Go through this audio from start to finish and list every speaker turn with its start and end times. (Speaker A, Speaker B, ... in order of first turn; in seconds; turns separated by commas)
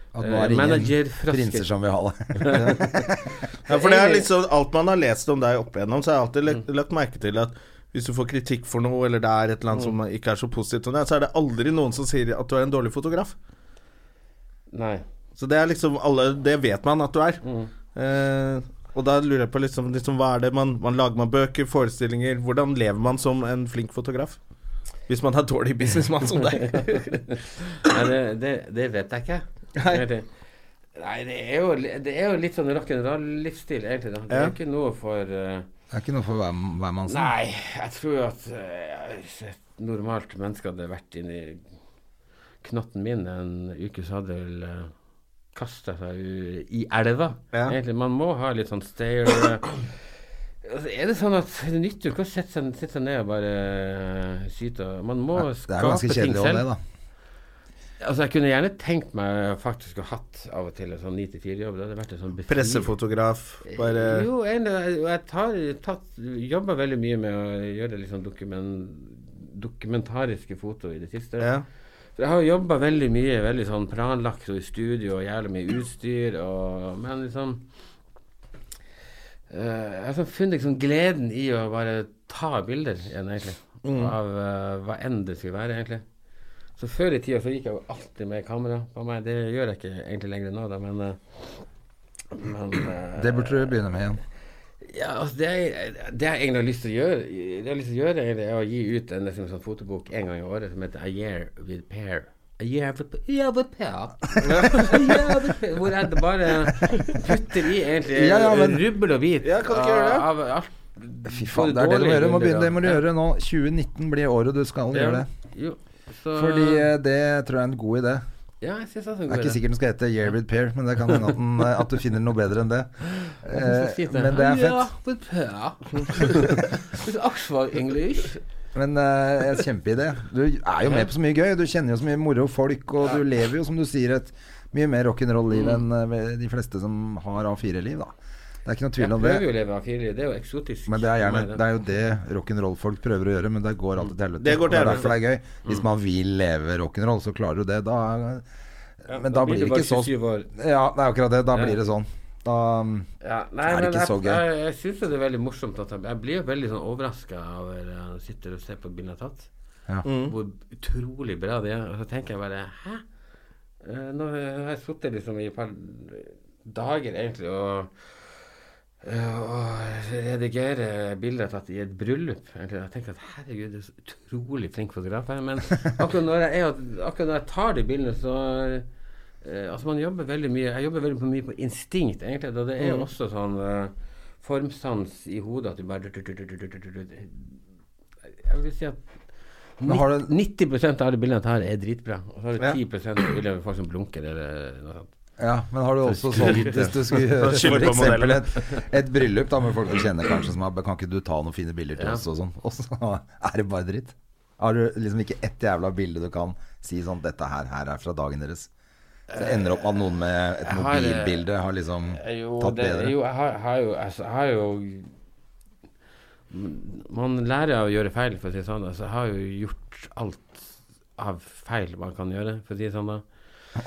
Speaker A: 0.1-3.2, Speaker B: 0.2-1.7, Speaker B: 2.4-3.0, Speaker B: 3.7-4.3, Speaker C: 3.7-13.3, Speaker B: 14.7-15.0, Speaker C: 15.4-17.4, Speaker B: 17.4-17.7, Speaker C: 17.9-24.4, Speaker C: 25.1-27.2, Speaker B: 26.7-30.2, Speaker C: 29.8-30.0, Speaker B: 30.9-35.7, Speaker A: 35.9-37.3, Speaker B: 37.1-41.6, Speaker B: 42.6-44.9, Speaker B: 45.5-49.8, Speaker B: 50.6-56.6, Speaker A: 55.4-56.8, Speaker B: 58.0-62.9, Speaker C: 62.5-64.3, Speaker B: 63.6-71.5, Speaker C: 71.4-71.6, Speaker B: 72.2-77.7, Speaker B: 79.5-86.0, Speaker C: 83.8-84.1, Speaker B: 86.8-91.6, Speaker B: 92.3-93.7, Speaker A: 93.2-94.2, Speaker B: 94.8-113.0, Speaker C: 104.4-105.0, Speaker A: 108.1-108.8, Speaker C: 109.4-110.3, Speaker A: 111.2-115.3, Speaker B: 114.9-116.9, Speaker A: 116.3-118.2, Speaker B: 118.6-119.6, Speaker A: 119.3-124.9, Speaker B: 123.2-128.4, Speaker A: 128.7-138.1, Speaker B: 135.5-135.8, Speaker A: 138.6-139.4, Speaker B: 139.0-141.6, Speaker A: 140.9-148.4, Speaker C: 144.4-145.1, Speaker B: 149.1-150.5, Speaker A: 149.1-153.1, Speaker B: 153.2-159.5, Speaker A: 153.6-154.4, Speaker C: 160.0-160.3, Speaker B: 160.3-163.0, Speaker B: 163.8-168.4, Speaker B: 169.0-178.8, Speaker B: 179.4-187.5, Speaker C: 182.8-183.1, Speaker B: 188.3-189.0, Speaker B: 189.8-195.1, Speaker A: 189.8-190.3, Speaker A: 195.4-208.7, Speaker B: 196.0-197.2, Speaker C: 196.4-196.7, Speaker C: 197.3-198.5, Speaker B: 202.0-202.2, Speaker B: 209.3-209.7, Speaker A: 209.3-213.1, Speaker B: 210.6-211.5, Speaker B: 212.1-215.1, Speaker B: 216.5-223.2